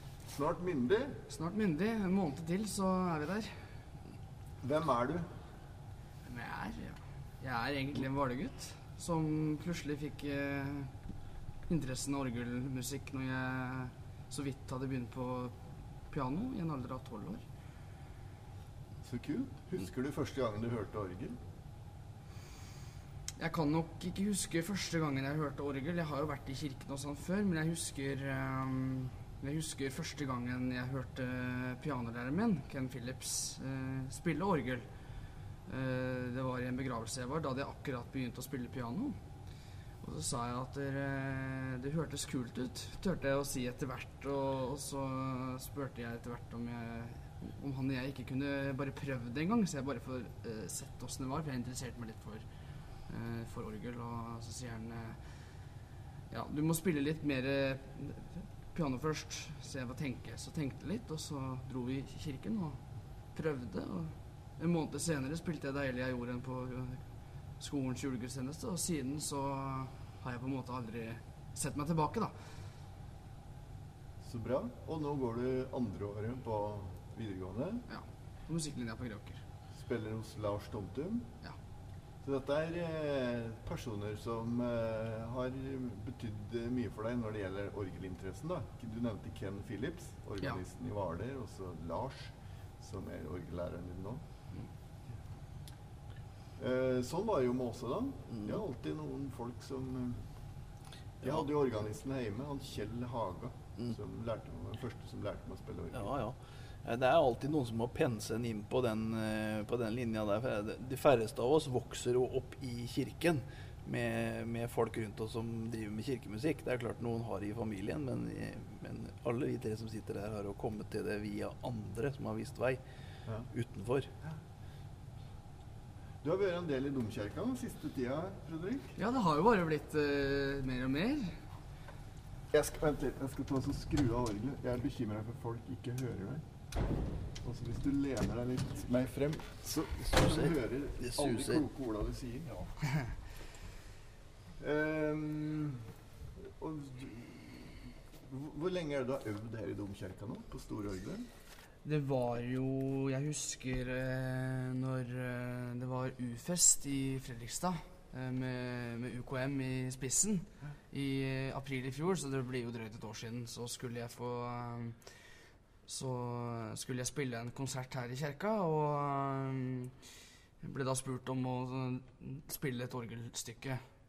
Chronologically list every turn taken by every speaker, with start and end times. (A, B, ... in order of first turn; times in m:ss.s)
0:00.3-0:01.2 A
0:01.3-0:03.8 B
0:04.6-0:05.4 A
0:06.2-0:11.0 B
0:11.7-0:15.6 B
0:16.1-0:17.4 B
0:19.0-0:21.4 A
0:23.4-0:34.9 B
0:35.7-0:39.2 B
0:40.0-0:52.5 B
0:53.1-0:55.3 B
0:56.3-1:02.8 B
1:03.3-1:07.0 B
1:07.6-1:12.4 B
1:14.2-1:17.8 A
1:17.9-1:19.4 B
1:19.8-1:21.3 A
1:22.2-1:34.2 A
1:36.6-1:40.3 A
1:41.2-1:46.2 A
1:45.9-2:02.8 C
2:03.5-2:04.1 C
2:06.2-2:08.9 A
2:09.0-2:11.4 B
2:12.5-2:16.4 A
2:17.4-2:22.6 A
2:20.0-2:21.6 C
2:24.6-2:31.3 A
2:31.8-2:45.3 B
2:45.9-2:50.0 B
2:50.6-2:53.8 B